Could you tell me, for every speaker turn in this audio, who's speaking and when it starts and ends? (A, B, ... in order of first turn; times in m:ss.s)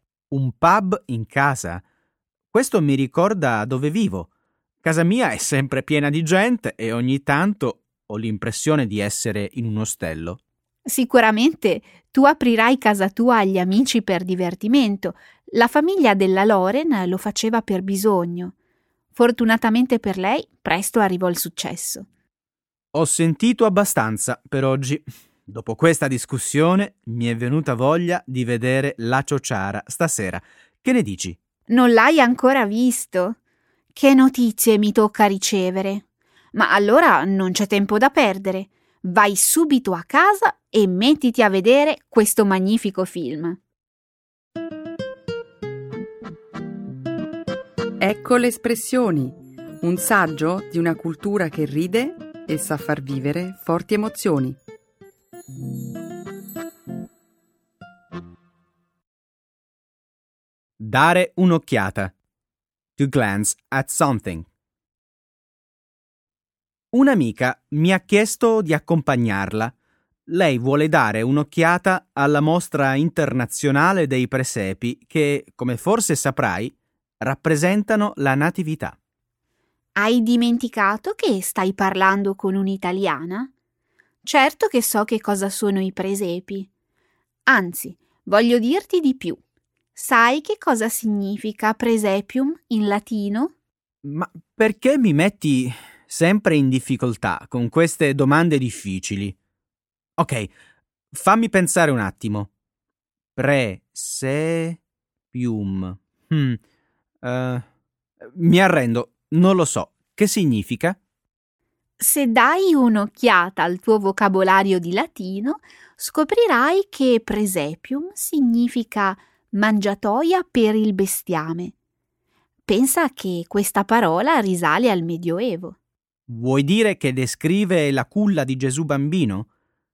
0:00.3-0:01.8 A
0:02.5-0:04.3 A
0:04.8-0:10.4 A
0:10.9-0:18.5 B
0:19.1-0:22.1 B
0:22.9-0:31.4 A
0:31.7-0:33.4 B
0:33.9-0:43.6 B
0:48.0-0:54.6 C
1:00.8-1:02.1 A
1:03.0-1:04.5 A
1:06.9-1:09.7 A
1:10.3-1:19.0 A
1:20.0-1:23.5 B
1:24.2-1:26.7 B
1:27.5-1:29.4 B
1:30.0-1:33.5 B
1:34.0-1:39.4 A
1:40.2-1:40.5 A
1:41.1-1:42.5 A
1:43.4-1:44.8 A
1:45.3-1:46.6 A
1:47.2-1:47.7 A
1:48.2-1:51.0 A
1:52.0-2:01.7 B
2:02.7-2:05.8 B
2:06.3-2:09.5 A